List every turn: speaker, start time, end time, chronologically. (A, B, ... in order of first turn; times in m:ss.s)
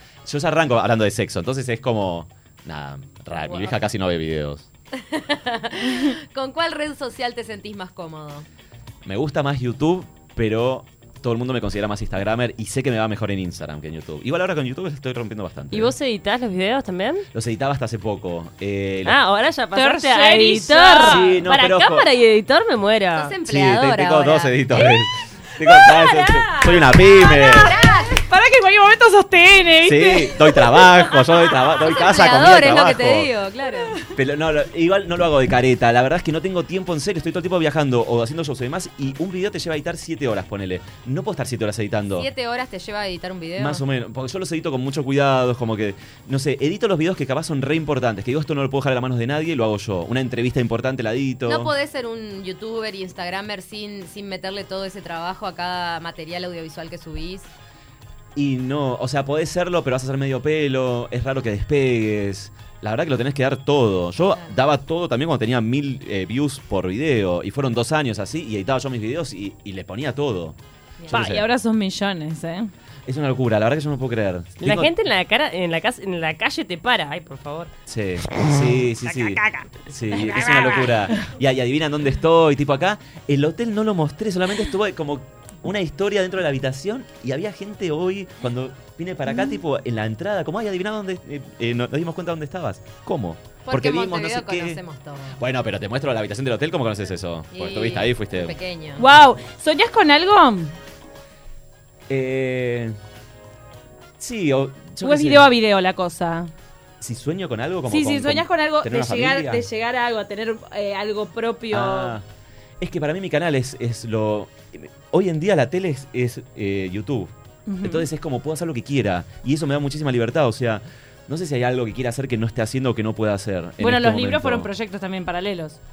0:00.2-0:04.7 A
0:03.5-0:03.8 B
0:05.0-0:08.5 B
0:09.0-0:15.9 A
0:15.7-0:17.2 C
0:17.3-0:19.2 A
0:19.0-0:23.3 C
0:19.7-0:21.4 D
0:21.0-0:22.1 A
0:23.1-0:24.9 B
0:23.5-0:27.8 A
0:25.6-0:31.4 D
0:27.3-0:28.2 B
0:29.8-0:33.3 A
0:31.8-0:34.0 B
0:34.2-0:42.3 A
0:42.2-0:43.8 B
0:43.6-0:51.7 A
0:51.5-0:57.5 B
0:58.4-1:10.6 A
1:04.3-1:04.5 B
1:11.1-1:11.5 A
1:11.1-1:12.7 D
1:13.1-1:14.9 A
1:14.6-1:17.7 C
1:17.9-1:34.8 A
1:18.4-1:21.0 C
1:33.7-1:35.4 B
1:35.4-1:38.6 A
1:37.5-1:39.0 B
1:39.0-1:40.7 D
1:42.1-1:43.0 A
1:44.2-1:45.5 A
1:45.0-1:46.5 D
1:47.0-1:49.7 A
1:47.9-1:52.2 D
1:51.7-1:52.2 A
1:52.8-1:57.3 A
1:57.7-1:58.1 D
1:57.8-2:04.7 A
2:03.8-2:05.8 D